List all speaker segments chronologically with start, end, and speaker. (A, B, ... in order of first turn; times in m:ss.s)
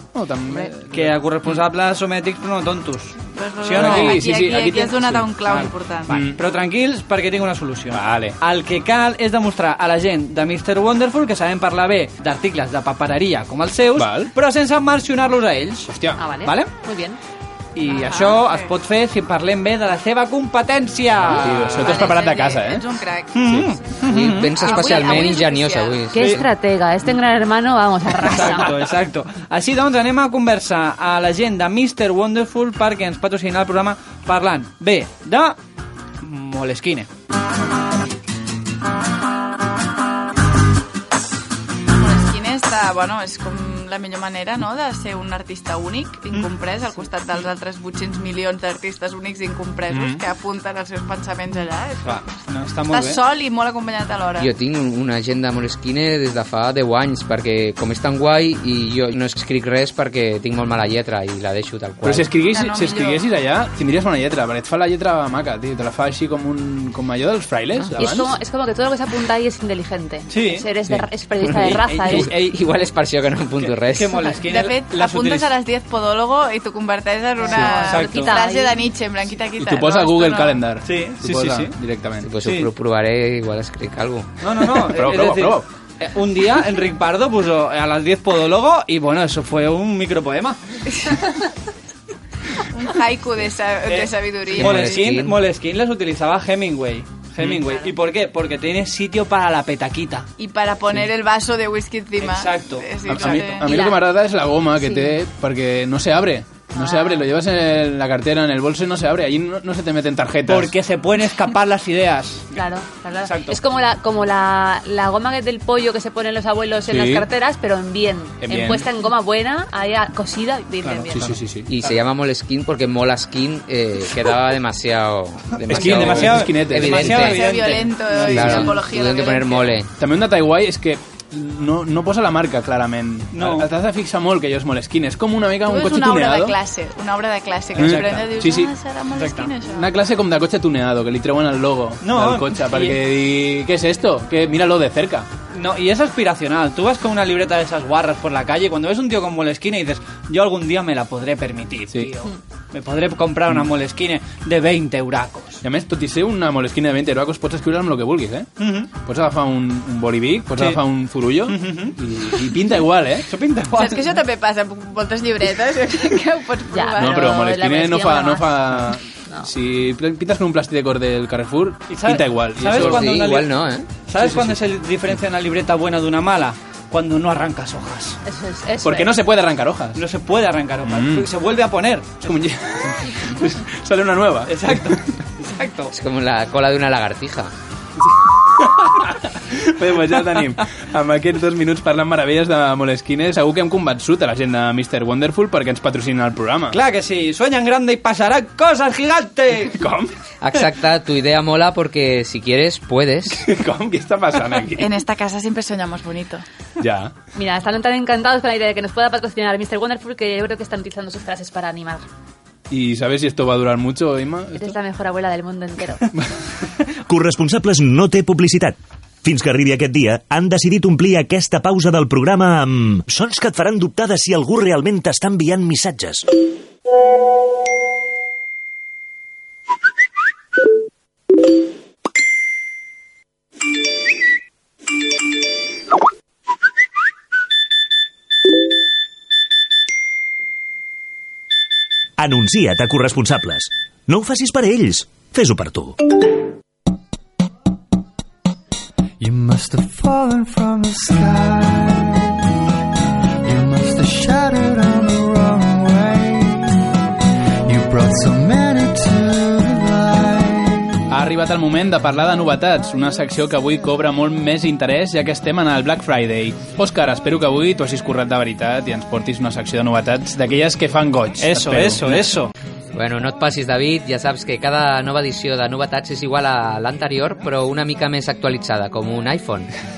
0:00.2-0:01.1 A
0:00.9-0:04.3 B
0:03.4-0:06.2 C
0:03.8-0:05.3 A
0:05.5-0:15.9 B
0:06.1-0:06.4 A
0:07.9-0:08.4 A
0:13.9-0:14.3 A
0:15.9-0:16.2 A
0:16.2-0:17.2 D
0:16.4-0:16.7 B
0:17.8-0:22.0 B
0:17.9-0:18.7 C
0:21.3-0:22.9 A
0:21.8-0:23.4 C
0:23.3-0:24.6 B
0:24.0-0:26.4 E
0:24.6-0:26.0 C
0:26.1-0:28.7 D
0:28.2-0:35.6 B
0:36.2-0:37.1 B
0:42.0-0:52.4 C
0:49.9-0:50.2 A
0:52.0-0:53.2 B
0:52.9-0:54.5 C
0:54.4-1:02.3 E
1:02.0-1:08.4 A
1:02.5-1:03.2 C
1:08.0-1:12.3 D
1:10.3-1:10.7 B
1:11.5-1:12.6 B
1:12.1-1:14.3 E
1:13.6-1:15.5 B
1:14.5-1:20.6 C
1:17.5-1:18.8 D
1:17.6-1:18.4 B
1:19.6-1:22.3 A
1:20.8-1:21.8 B
1:22.2-1:24.3 E
1:22.4-1:22.7 B
1:24.4-1:30.6 B
1:24.8-1:25.6 A
1:32.6-1:35.0 C
1:33.9-1:40.3 B
1:34.6-1:35.4 E
1:40.4-1:43.7 C
1:42.2-1:42.9 B
1:43.1-1:50.7 A
1:43.6-1:44.0 D
1:44.8-1:45.1 D
1:46.8-1:47.2 D
1:50.5-1:52.6 B
1:52.5-2:01.3 D
1:53.2-1:53.6 B
1:56.9-1:57.3 A
1:58.4-1:58.9 A
2:00.8-2:01.3 B
2:01.1-2:01.7 A
2:01.7-2:07.5 E
2:05.7-2:07.4 A
2:05.7-2:08.6 B
2:07.1-2:09.8 C
2:08.3-2:08.7 A
2:08.3-2:09.9 E
2:10.0-2:16.6 A
2:13.3-2:13.7 B
2:15.7-2:19.9 C
2:17.8-2:18.2 B
2:17.8-2:18.7 A
2:19.1-2:19.5 B
2:19.7-2:25.3 A
2:22.0-2:23.0 B
2:25.5-2:35.6 B
2:35.6-2:43.3 A
2:38.6-2:38.9 B
2:41.5-2:42.0 B
2:43.3-2:44.1 B
2:43.7-2:47.3 C
2:46.7-2:49.5 D
2:47.0-2:53.2 A
2:51.9-2:53.5 B
2:52.8-2:53.9 E
2:54.1-2:58.2 B
2:54.2-2:54.6 A
2:58.2-2:59.1 D
2:58.8-3:00.0 A
3:00.0-3:02.2 B
3:00.8-3:01.3 A
3:02.2-3:05.0 A
3:04.5-3:05.9 B
3:05.9-3:07.5 E
3:08.6-3:16.8 A
3:16.7-3:19.8 B
3:19.8-3:20.1 A
3:20.4-3:23.4 E
3:23.3-3:24.9 A
3:24.8-3:26.4 C
3:26.8-3:27.1 A
3:27.4-3:32.0 D
3:32.7-3:34.8 A
3:34.6-3:36.0 D
3:37.1-3:46.3 F
4:02.2-4:06.0 F
4:09.2-4:12.4 G
4:13.4-4:16.9 G
4:17.6-4:21.0 G
4:21.1-4:32.3 A
4:31.4-4:32.5 B
4:32.9-4:39.7 E